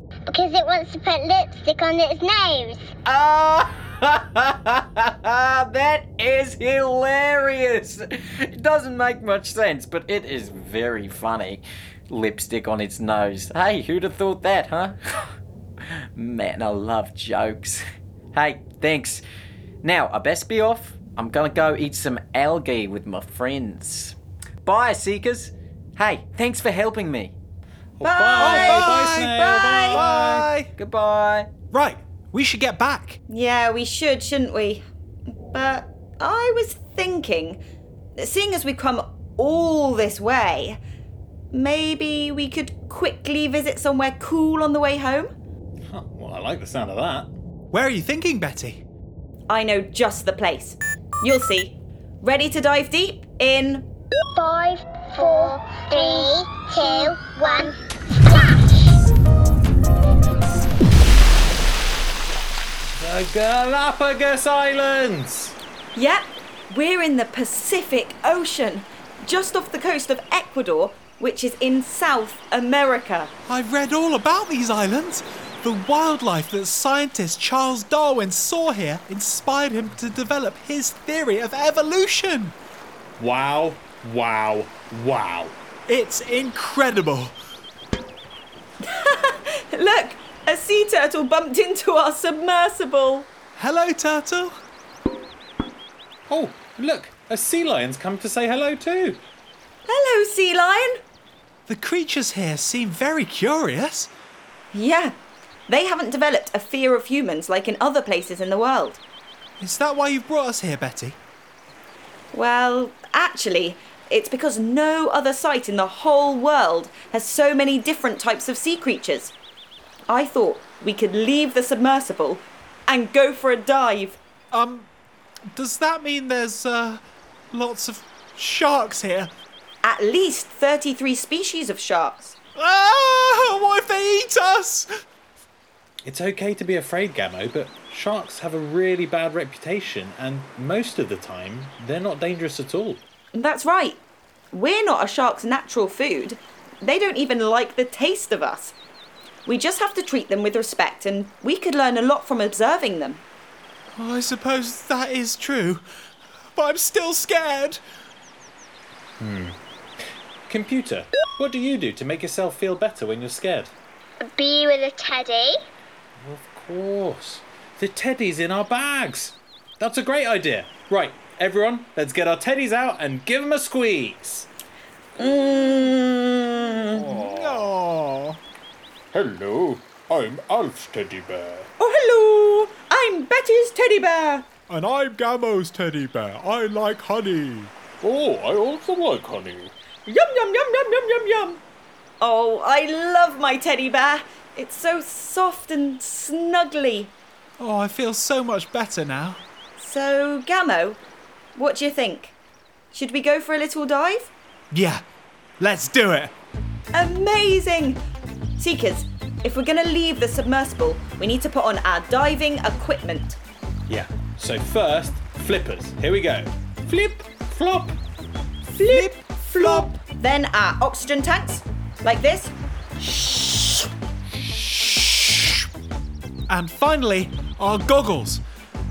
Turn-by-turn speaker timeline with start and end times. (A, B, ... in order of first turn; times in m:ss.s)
0:00.3-0:02.9 A
0:03.0-0:15.3 B
0:16.1-0:19.2 B
0:19.8-0:27.3 B
0:28.0-0:30.5 C
0:28.0-0:30.0 D
0:28.4-0:30.7 E
0:30.8-0:31.5 B
0:31.7-0:33.2 E
0:33.3-0:34.8 D
0:35.3-0:37.6 D
0:38.2-0:40.8 D
0:41.5-0:45.3 D
0:45.9-0:47.3 C
0:47.7-0:48.8 E
0:49.5-0:53.9 D
0:54.4-0:59.0 A
1:03.0-1:05.6 C
1:05.9-1:13.3 D
1:13.5-1:22.5 E
1:23.2-1:25.5 C
1:25.9-1:27.3 E
1:28.8-1:33.3 D
1:33.6-1:34.5 E
1:36.3-1:39.2 C
1:39.8-1:41.0 D
1:41.7-1:44.1 E
1:44.7-1:45.1 D
1:45.7-1:49.0 D
1:49.6-1:51.2 E
1:52.3-1:59.3 D
2:00.1-2:04.2 D
2:04.5-2:04.9 E
2:05.5-2:07.0 E
2:07.5-2:09.3 E
2:09.8-2:12.4 D
2:12.6-2:14.9 E
2:16.0-2:23.0 C
2:23.3-2:24.0 D
2:24.5-2:28.7 D
2:29.4-2:33.2 D
2:33.9-2:35.8 E
2:36.6-2:37.8 E
2:39.2-2:39.6 C
2:40.5-2:43.7 C
2:44.2-2:45.6 A
2:46.2-2:54.5 C
2:55.2-2:57.1 D
2:57.0-2:57.7 C
2:57.1-2:58.4 E
2:59.1-3:01.7 C
3:01.8-3:04.5 D
3:04.7-3:07.7 E
3:08.0-3:09.7 C
3:10.1-3:11.6 D
3:12.2-3:17.1 D
3:17.6-3:19.4 E
3:19.8-3:21.0 D
3:21.5-3:22.3 D
3:22.9-3:24.3 D
3:24.7-3:25.0 E
3:25.6-3:26.3 E
3:26.9-3:28.0 D
3:28.6-3:33.4 D
3:33.9-3:38.0 C
3:38.7-3:43.7 D
3:38.8-3:39.9 E
3:46.5-3:48.4 E